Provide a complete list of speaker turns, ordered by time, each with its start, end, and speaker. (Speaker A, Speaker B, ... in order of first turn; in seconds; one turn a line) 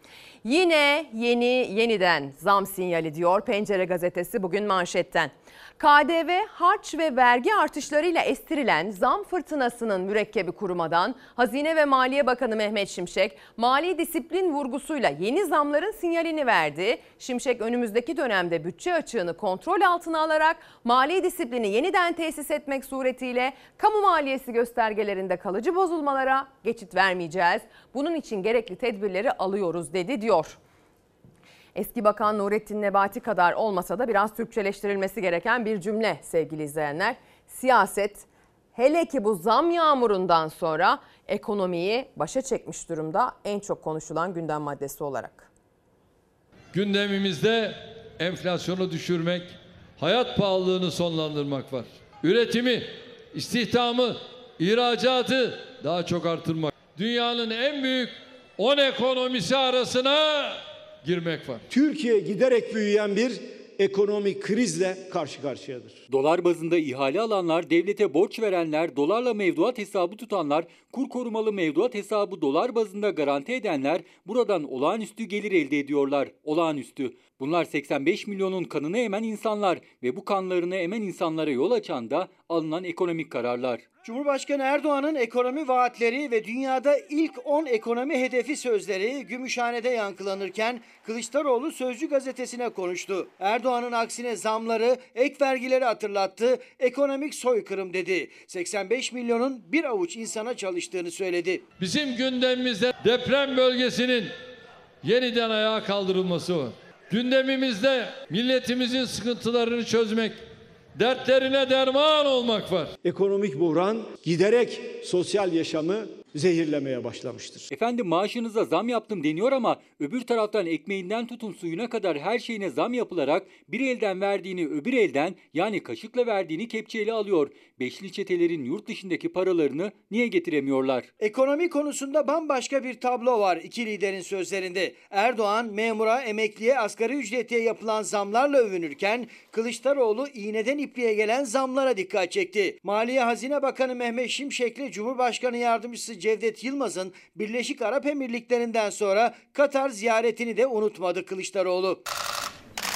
Speaker A: 0.4-30.6
Speaker A: 31.7-45.5
Speaker B: 46.7-61.6
Speaker C: 61.7-66.0
Speaker D: 66.1-83.8
Speaker E: 84.0-101.6
Speaker B: 101.8-104.3
Speaker B: 105.0-110.4
Speaker B: 110.9-112.9
Speaker C: 113.0-117.7
Speaker D: 117.7-131.1
Speaker E: 131.2-152.0